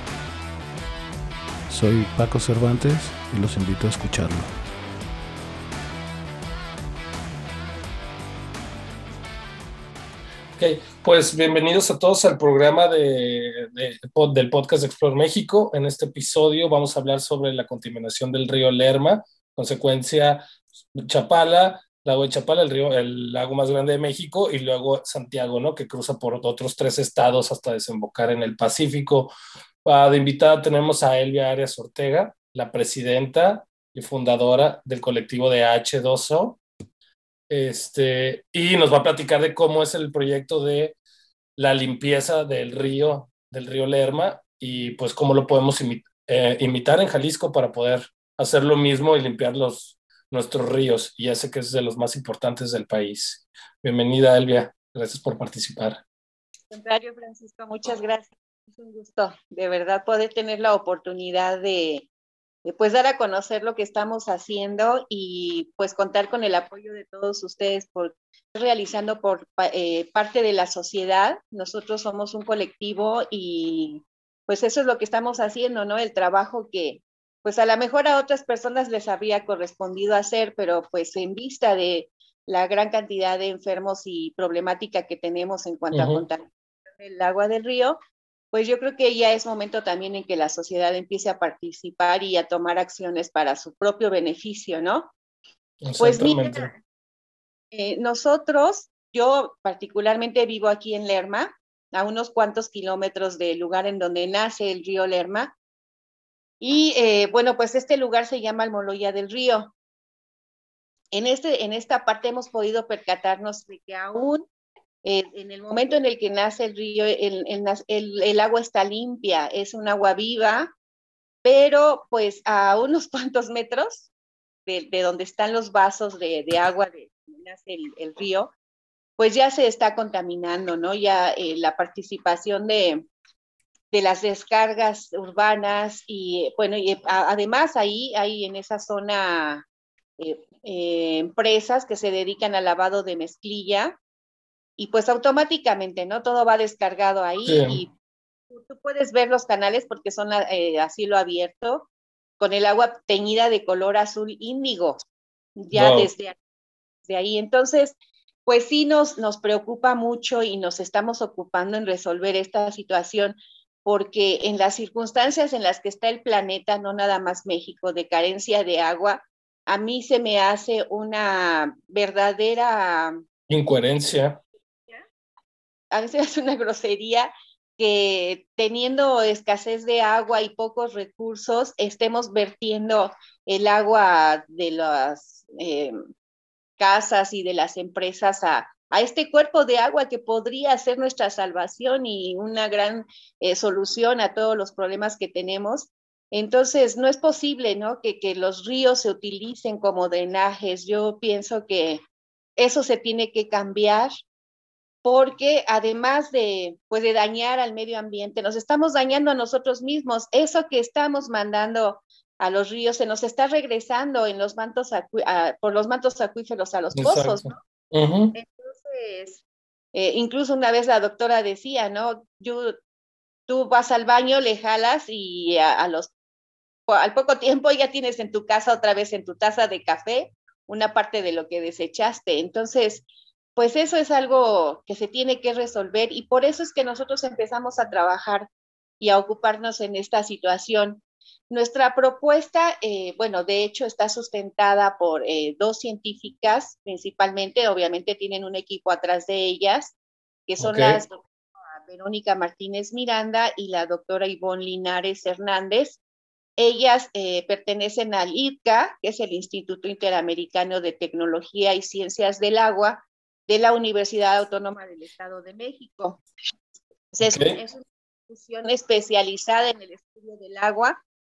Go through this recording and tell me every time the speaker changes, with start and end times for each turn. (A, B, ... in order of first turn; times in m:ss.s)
0:01.7-0:04.5 A
0:10.6-0:20.4 B
0:21.0-0:29.3 B
0:29.8-0:36.6 B
0:37.5-0:41.0 B
0:41.6-0:56.0 B
0:56.7-1:02.1 C
1:02.6-1:26.5 C
1:25.9-1:26.2 B
1:27.0-1:28.0 C
1:28.5-1:35.1 C
1:35.8-1:36.7 B
1:36.0-1:36.8 C
1:37.7-1:45.5 C
1:46.6-1:49.7 C
1:51.1-1:54.5 C
1:55.0-2:00.7 C
2:01.4-2:04.1 C
2:04.7-2:08.5 C
2:09.2-2:13.0 C
2:13.9-2:19.6 C
2:20.2-2:24.0 C
2:24.8-2:27.9 C
2:27.4-2:27.8 B
2:28.5-2:35.0 C
2:35.6-2:36.4 C
2:35.7-2:36.1 B
2:37.1-2:53.2 C
2:53.5-2:54.4 B
2:55.9-3:06.0 C
3:06.8-3:22.0 C
3:22.6-3:24.1 C
3:25.0-3:37.6 C
3:37.0-3:38.4 B
3:38.3-3:39.4 C
3:39.9-3:42.8 C
3:43.5-3:46.1 C
3:46.9-3:53.0 C
3:53.6-3:58.5 C
3:59.0-4:10.0 C
4:10.5-4:11.2 C
4:10.6-4:11.0 B
4:11.9-4:16.0 C
4:16.6-4:26.2 C
4:27.1-4:31.0 C
4:27.2-4:27.6 B